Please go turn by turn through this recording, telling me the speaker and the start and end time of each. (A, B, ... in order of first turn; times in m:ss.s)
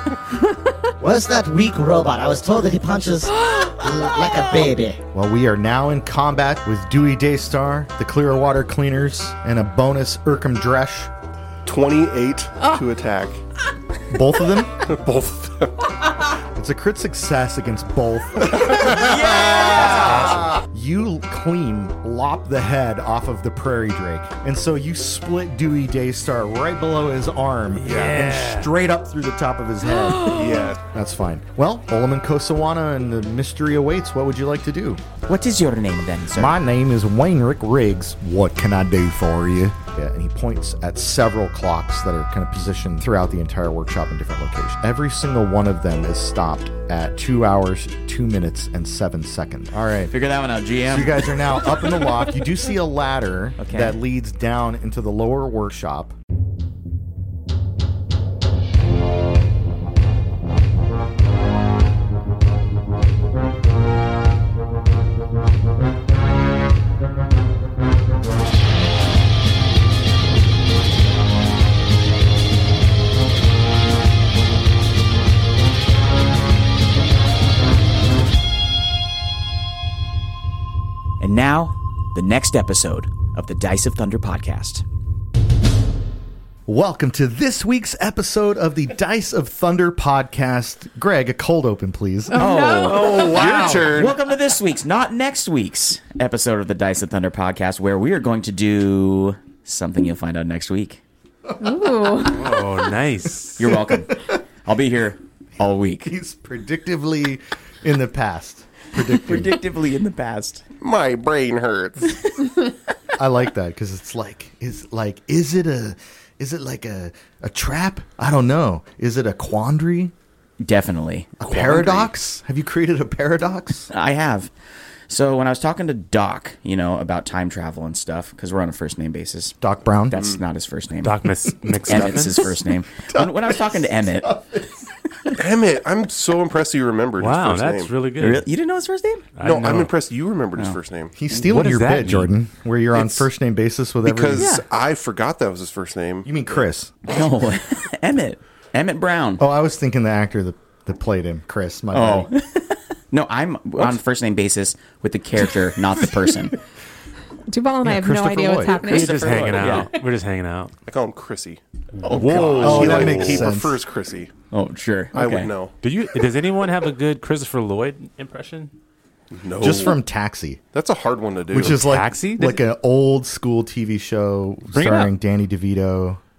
0:01.0-0:05.0 A
0:03.4-0:03.9 B
0:05.1-0:11.1 C
0:11.6-0:13.4 D
0:14.1-0:14.8 C
0:14.8-0:15.9 D
0:16.5-0:35.0 C
0:18.7-0:19.1 D
0:18.8-0:20.5 E
0:19.8-0:20.5 F
0:27.8-0:28.7 F
0:30.0-0:30.5 B
0:30.2-0:30.8 D
0:35.2-0:36.6 E
0:36.3-0:50.1 C
0:50.1-0:51.3 E
0:50.9-0:56.1 C
0:53.6-0:54.0 E
1:21.2-1:24.8 E
1:26.7-1:32.7 C
1:32.3-1:33.3 B
1:32.4-1:41.0 E
1:32.8-1:33.9 F
1:32.9-1:34.2 D
1:41.6-1:42.6 B
1:41.6-1:42.2 C
1:42.2-1:43.7 F
1:43.6-1:46.2 E
1:43.9-1:44.2 C
1:46.0-1:49.6 C
1:49.0-1:50.6 E
1:50.8-1:52.4 D
1:53.2-2:00.1 C
2:00.6-2:02.1 E
2:01.4-2:03.9 C
2:03.9-2:04.5 E
2:05.1-2:09.6 E
2:09.6-2:10.3 C
2:10.1-2:11.2 E
2:10.1-2:10.4 D
2:11.0-2:12.5 F
2:11.7-2:15.3 C
2:11.9-2:14.4 E
2:15.3-2:17.9 D
2:17.2-2:18.5 F
2:18.2-2:19.2 E
2:19.4-2:19.9 F
2:19.4-2:21.1 D
2:21.2-2:24.5 C
2:21.4-2:22.3 F
2:24.0-2:26.3 D
2:24.3-2:24.6 E
2:26.2-2:26.9 C
2:27.0-2:29.4 E
2:29.4-2:32.3 C
2:31.9-2:36.6 E
2:37.5-2:39.8 B
2:37.8-2:38.8 C
2:38.7-2:40.7 F
2:38.8-2:39.9 D
2:39.6-2:39.8 E
2:40.8-2:41.6 D
2:42.0-2:43.6 F
2:42.0-2:43.2 E
2:42.3-2:43.8 C
2:42.4-2:44.3 D
2:44.5-2:45.5 E
2:45.1-2:45.8 D
2:45.8-2:48.7 F
2:49.3-2:50.0 D
2:49.6-2:50.6 C
2:50.7-2:51.8 D
2:51.5-2:56.2 C
2:51.6-2:52.6 F
2:54.7-2:55.1 F